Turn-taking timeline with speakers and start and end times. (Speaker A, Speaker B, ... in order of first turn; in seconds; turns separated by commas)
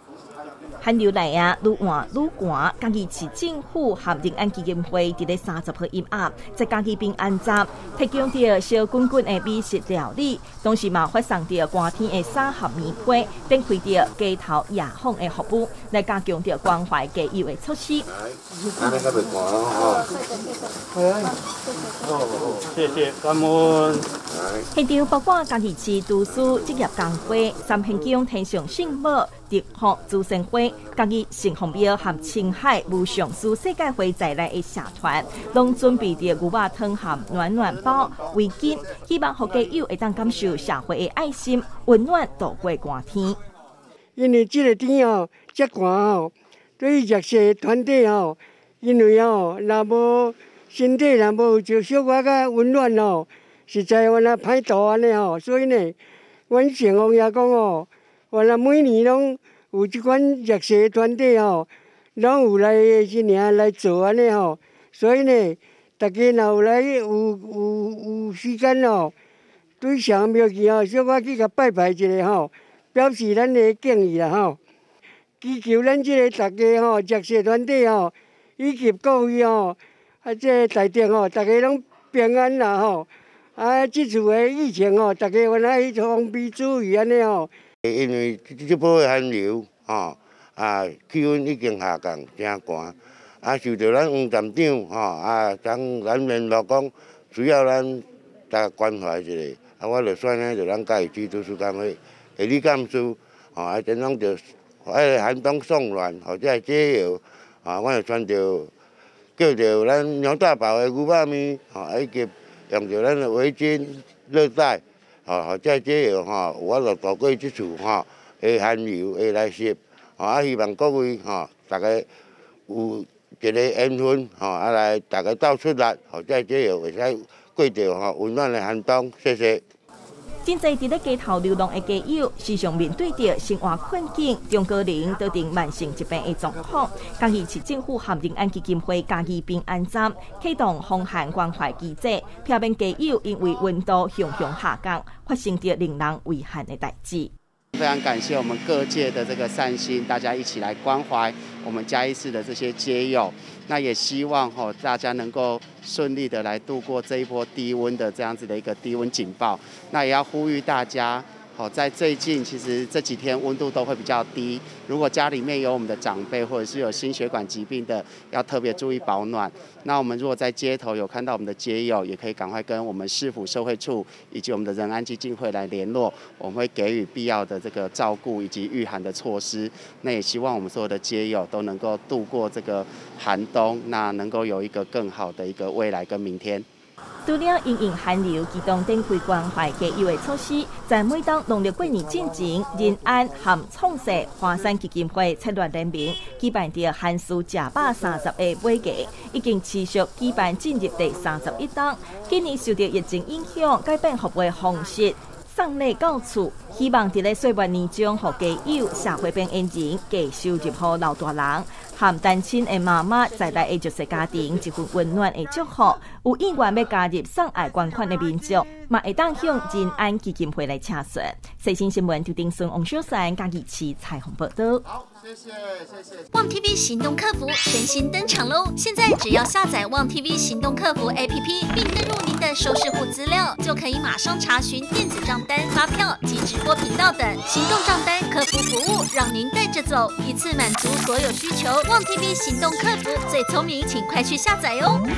Speaker A: 0.8-18.1, Speaker B: 18.8-20.0, Speaker C: 22.1-24.1, Speaker A: 24.7-43.4, Speaker D: 44.2-55.9, Speaker D: 56.5-69.1, Speaker D: 69.8-74.6, Speaker D: 75.4-87.5, Speaker B: 87.8-108.7, Speaker B: 109.4-122.1, Speaker B: 122.7-129.6, Speaker A: 130.4-147.3, Speaker E: 147.8-186.7, Speaker A: 187.2-224.8, Speaker F: 226.3-245.0